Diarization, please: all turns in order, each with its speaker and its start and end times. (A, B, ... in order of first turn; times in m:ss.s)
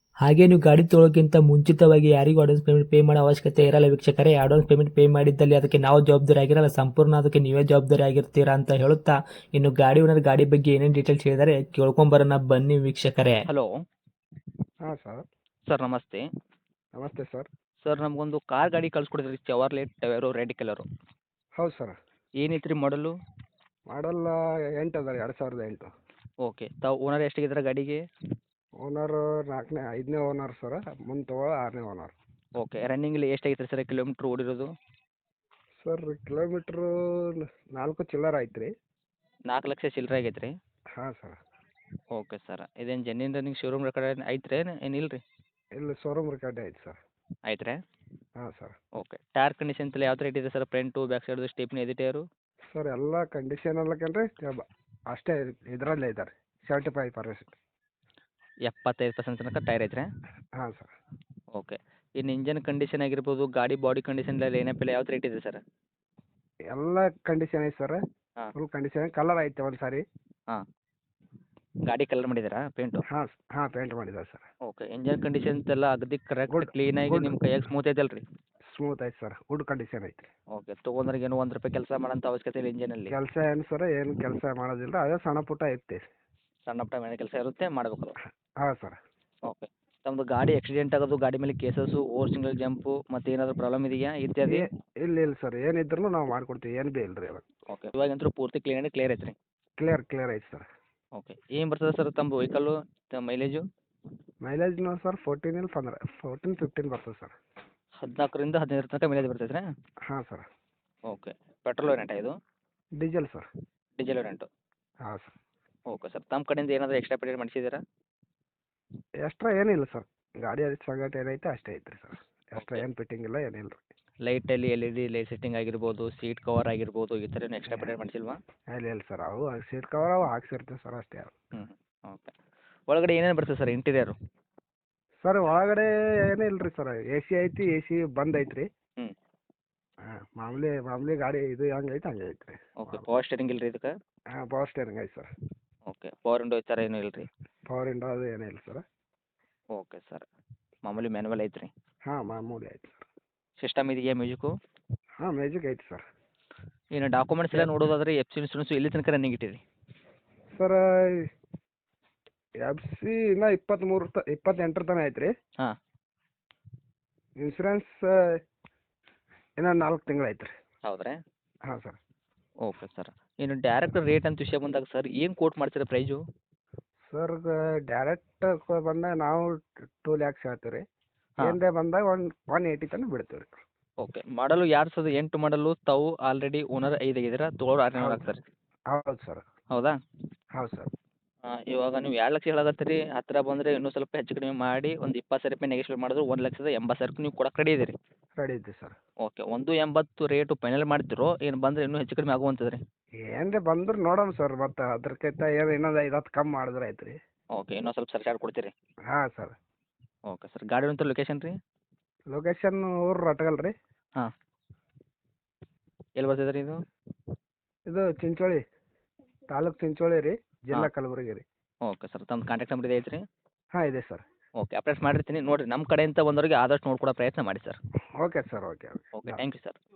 0:00.2-0:13.4 A
0:14.8-0:15.2 B
0:15.7-0:16.2 C
0:17.0-0:17.5 B
0:17.8-0:20.8 C
0:21.6-0:22.0 B
0:22.4-0:23.1 C
0:23.9-0:25.9 B
0:26.4-0:28.0 C
0:28.8-0:32.2 B
0:32.6-0:34.7 C
0:35.8-0:38.7 B
0:39.5-0:40.5 C
0:41.0-0:41.4 B
0:42.2-0:45.2 C
0:45.8-0:47.0 B
0:47.5-0:47.8 C
0:48.4-0:48.8 B
0:49.0-0:52.2 C
0:52.7-0:57.6 B
0:58.7-1:00.0 C
1:00.6-1:00.9 B
1:01.6-1:05.6 C
1:06.7-1:08.0 B
1:08.6-1:10.0 B
1:11.9-1:13.0 C
1:13.1-1:14.5 B
1:14.7-1:18.2 C
1:16.5-1:17.4 B
1:18.7-1:20.3 B
1:20.5-1:23.1 C
1:23.1-1:26.1 B
1:26.7-1:28.2 C
1:28.6-1:29.0 B
1:29.4-1:34.7 C
1:34.4-1:37.4 B
1:37.7-1:39.4 C
1:39.8-1:40.7 B
1:41.2-1:43.6 C
1:44.4-1:47.3 B
1:48.0-1:49.6 C
1:50.1-1:50.5 B
1:51.1-1:52.3 C
1:53.0-1:53.5 B
1:54.0-1:54.5 C
1:55.1-1:55.3 B
1:55.9-1:57.8 C
1:59.2-2:03.8 B
2:02.6-2:02.8 C
2:04.3-2:08.4 C
2:07.7-2:07.9 B
2:08.7-2:11.4 B
2:11.5-2:12.3 C
2:12.9-2:14.2 C
2:15.2-2:18.7 B
2:20.1-2:23.1 B
2:22.8-2:23.9 C
2:24.3-2:25.3 B
2:25.9-2:27.3 C
2:27.7-2:28.8 B
2:29.8-2:30.3 C
2:30.8-2:31.7 C
2:32.1-2:33.1 B
2:33.6-2:34.5 C
2:35.2-2:36.0 B
2:37.0-2:39.6 C
2:40.5-2:41.3 B
2:42.6-2:45.3 B
2:47.4-2:48.1 B
2:49.6-2:50.5 B
2:50.8-2:51.2 C
2:51.7-2:52.0 B
2:52.6-2:56.2 C
2:57.0-3:00.8 B
3:01.4-3:03.6 B
3:04.0-3:08.4 C
3:08.0-3:08.3 B
3:08.9-3:09.4 B
3:10.6-3:10.9 B
3:11.5-3:17.9 C
3:18.4-3:19.0 B
3:19.2-3:22.8 C
3:23.2-3:27.2 B
3:27.6-3:28.7 C
3:29.1-3:29.6 B
3:30.3-3:31.6 C
3:32.3-3:33.7 B
3:36.2-3:36.8 C
3:37.9-3:38.6 B
3:39.5-3:41.4 B
3:41.9-3:43.2 C
3:43.8-3:44.2 B
3:44.6-3:47.8 C
3:48.2-3:49.4 B
3:49.2-3:49.8 C